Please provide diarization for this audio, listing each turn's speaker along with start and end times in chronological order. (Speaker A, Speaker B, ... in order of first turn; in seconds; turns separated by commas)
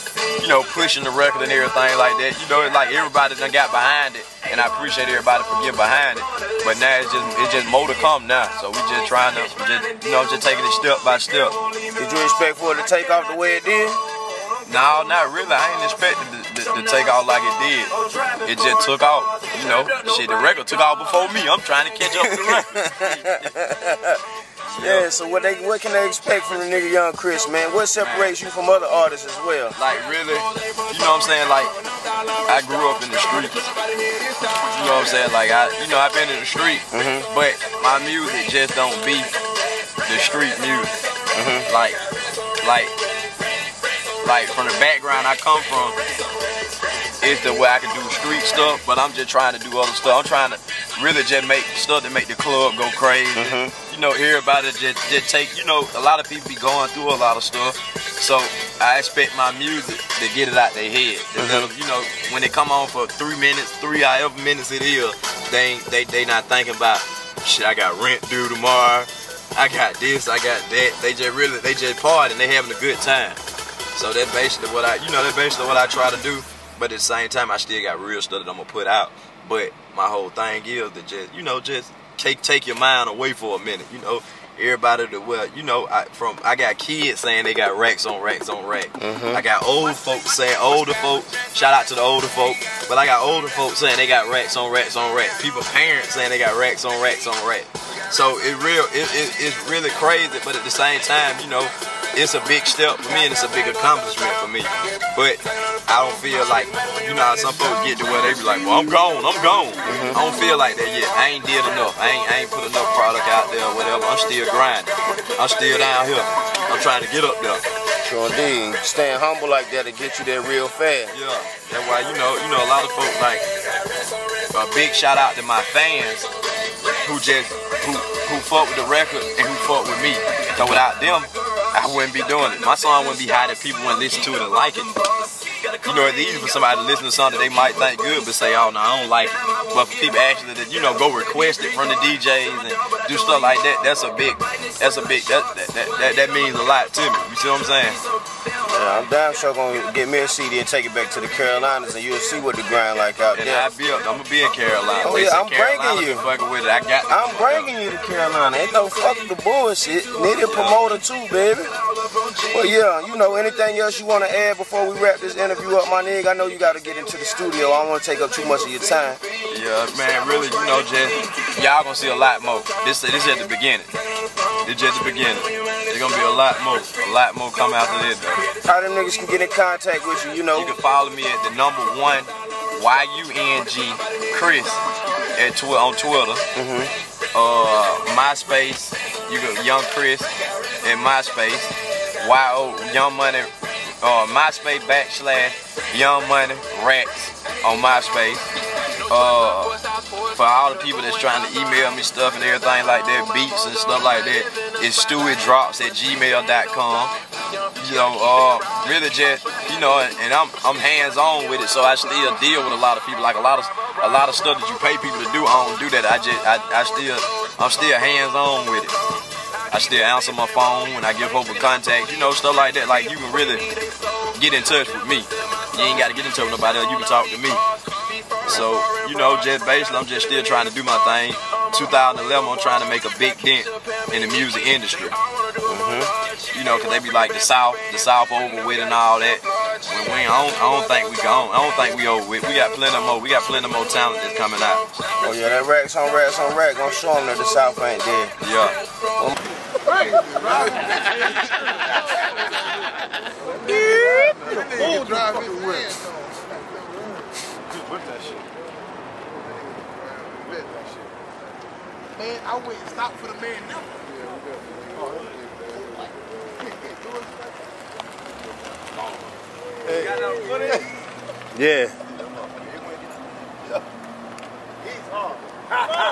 Speaker A: 0.4-11.6, Speaker B: 12.0-14.0, Speaker A: 14.7-23.7, Speaker B: 22.2-24.2, Speaker A: 24.6-25.1, Speaker B: 24.8-29.8, Speaker A: 28.0-28.4, Speaker A: 29.8-31.7, Speaker A: 32.5-33.7, Speaker A: 34.7-39.3, Speaker B: 36.9-37.3, Speaker A: 40.1-40.9, Speaker B: 41.4-41.7, Speaker A: 41.7-42.0, Speaker A: 42.6-43.0, Speaker A: 44.2-46.0, Speaker A: 47.2-73.4, Speaker B: 53.4-53.7, Speaker B: 61.4-61.7, Speaker A: 73.9-117.7, Speaker B: 89.0-89.4, Speaker B: 109.8-110.2, Speaker B: 118.0-121.2, Speaker A: 121.1-123.5, Speaker A: 124.5-126.3, Speaker A: 127.0-134.9, Speaker A: 135.7-148.0, Speaker B: 148.7-153.7, Speaker A: 153.3-157.7, Speaker B: 155.0-156.3, Speaker B: 157.1-161.7, Speaker A: 160.4-161.0, Speaker B: 162.5-169.2, Speaker A: 169.5-173.9, Speaker A: 174.6-178.5, Speaker B: 178.6-180.8, Speaker A: 180.6-184.8, Speaker A: 185.4-186.4, Speaker B: 186.6-186.9, Speaker A: 187.3-198.5, Speaker A: 199.1-207.1, Speaker A: 207.8-218.9, Speaker A: 219.7-223.7, Speaker A: 224.3-227.6, Speaker A: 228.4-235.2, Speaker B: 235.7-236.1, Speaker A: 236.5-244.9, Speaker B: 245.2-248.3, Speaker A: 248.4-248.8, Speaker C: 249.9-251.2, Speaker C: 253.4-257.2, Speaker B: 253.9-254.3, Speaker C: 260.1-261.1, Speaker C: 262.2-266.1, Speaker A: 270.0-270.8, Speaker C: 270.1-270.7, Speaker B: 271.5-272.0, Speaker A: 272.3-272.9, Speaker C: 274.9-275.8